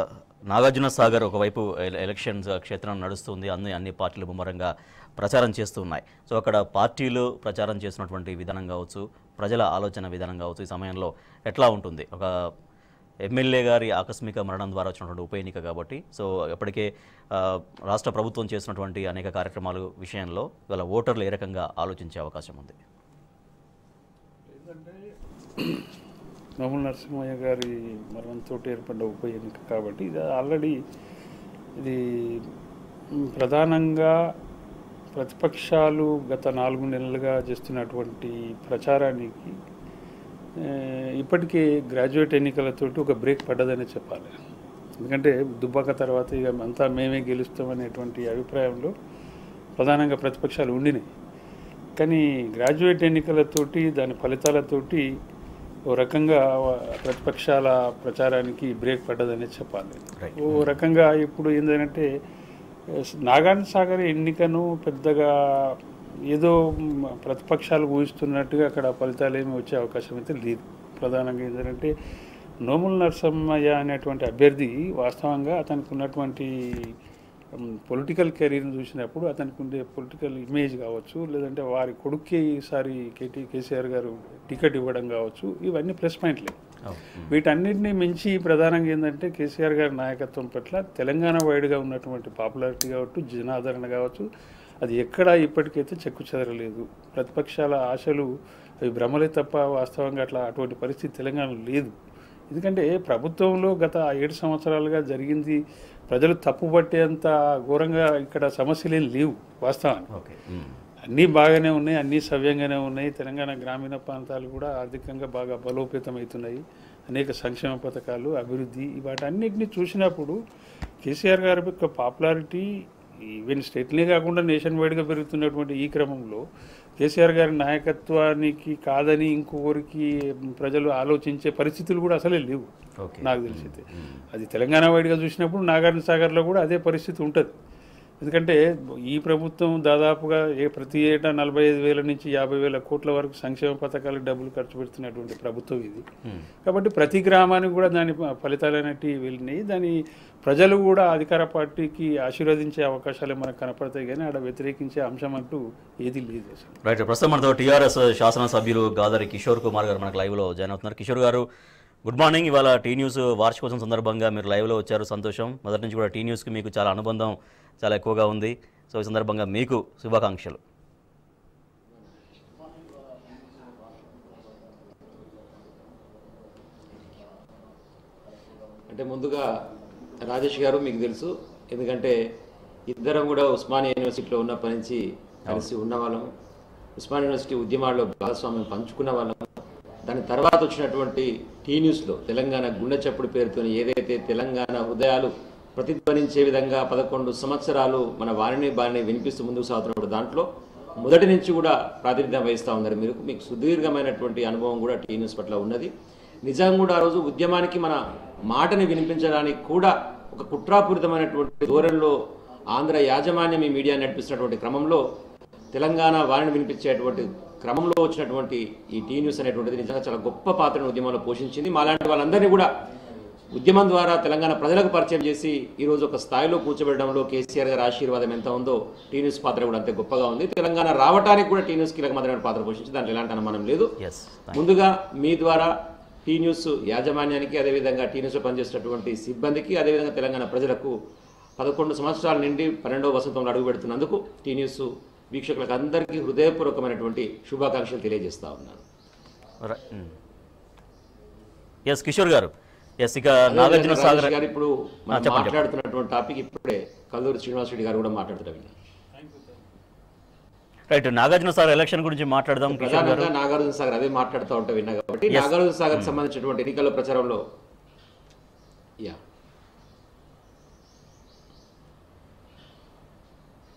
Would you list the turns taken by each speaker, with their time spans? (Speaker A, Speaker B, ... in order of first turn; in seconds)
Speaker A: 0.5-12.3, 13.3-22.8, 60.2-60.7, 86.9-87.3, 110.1-110.8, 133.0-134.2, 156.8-161.5, 162.1-170.6, 234.0-234.6, 249.6-250.1, 251.9-254.3, 255.1-255.6, 260.9-263.3, 265.3-266.1
Speaker B: 24.5-25.0, 25.6-25.9, 26.6-30.8, 31.8-32.5, 33.2-34.1, 35.1-39.5, 40.6-44.4, 45.0-48.9, 49.8-51.1, 52.0-55.1, 55.9-62.1, 62.9-65.8, 67.2-71.9, 72.7-76.9, 77.6-86.5, 87.3-94.3, 94.8-98.3, 98.8-101.9, 102.5-110.1, 111.1-120.4, 121.0-122.7, 123.5-126.4, 127.0-132.7, 133.2-137.5, 138.2-146.1, 146.6-156.8, 259.2-259.6
Speaker C: 178.9-179.5, 180.2-182.2, 182.9-186.3, 187.0-189.5, 190.1-200.5, 201.0-205.9, 206.5-208.0, 208.5-212.1, 212.7-215.0, 215.7-222.7, 223.5-233.9, 234.5-235.7, 236.2-240.9, 241.6-248.8, 253.5-258.7, 262.7-267.4